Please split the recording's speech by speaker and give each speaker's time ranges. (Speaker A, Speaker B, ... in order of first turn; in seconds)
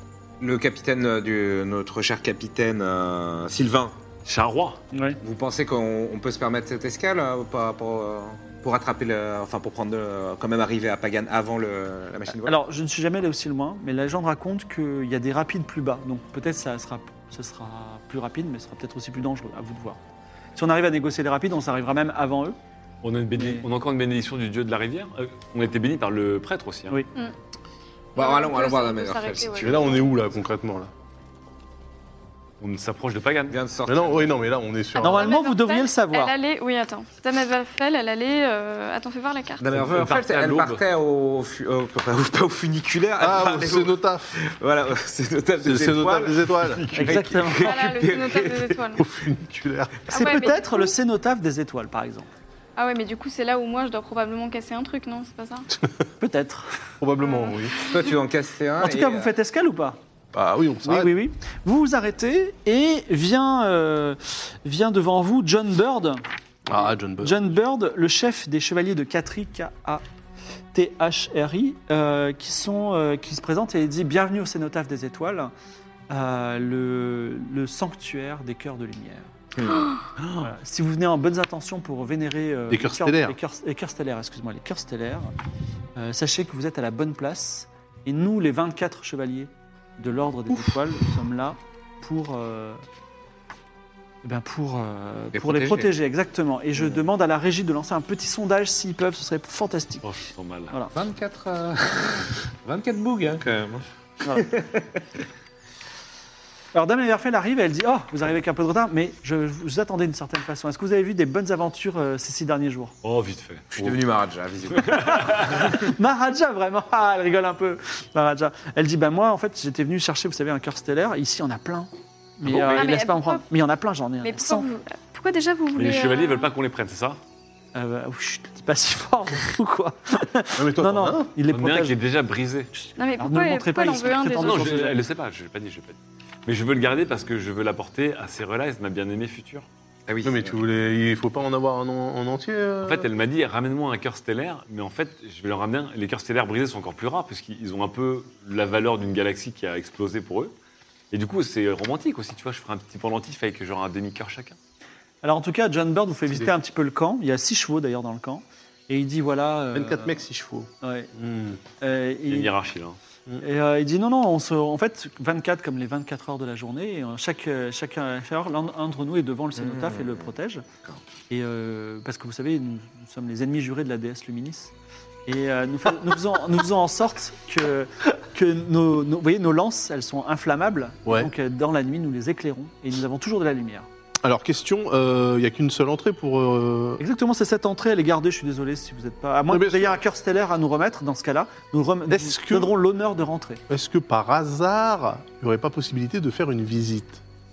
Speaker A: 0.4-4.0, 5.2-12.6, 28.1-30.1, 33.5-34.3, 39.6-48.9, 57.8-59.3, 79.5-79.9, 95.3-95.9, 100.9-105.2, 113.7-115.4, 140.1-140.6, 169.6-170.3
Speaker B: 4.2-4.8, 23.0-27.0, 32.6-33.6, 39.7-40.8, 80.2-80.5, 100.0-100.8, 113.0-113.9, 114.7-115.7, 122.4-122.9, 125.8-127.2, 131.5-132.7, 134.3-139.7, 142.8-150.5, 151.1-154.6, 162.3-163.0
Speaker C: 4.9-5.2, 12.4-20.0, 20.5-22.6, 23.3-23.6, 35.0-36.3, 46.9-47.7, 50.1-52.3, 56.2-56.7, 58.8-60.0, 60.8-66.2, 67.2-70.0, 70.7-75.5, 76.1-79.3, 80.4-85.3, 86.0-92.8, 94.2-100.1, 106.7-112.9, 115.1-124.7, 127.7-131.9, 132.7-135.0, 155.2-160.2, 160.8-161.1, 161.8-162.5, 163.4-170.6, 171.3-174.7, 175.2-183.9, 187.0-193.6
Speaker D: 28.1-30.1, 35.0-39.6, 47.6-49.0, 50.1-50.9, 52.8-55.7, 57.2-57.6, 122.7-123.4, 124.2-126.5, 133.0-134.8
Speaker E: 29.6-30.9, 33.9-35.2, 43.2-44.4, 45.6-47.0, 49.0-50.1, 57.0-57.8, 60.3-61.1, 66.7-67.5, 82.7-83.4, 130.6-131.3, 140.2-143.1, 159.7-161.6, 181.0-181.3, 184.2-187.0, 189.5-189.9, 192.1-192.7, 193.7-197.2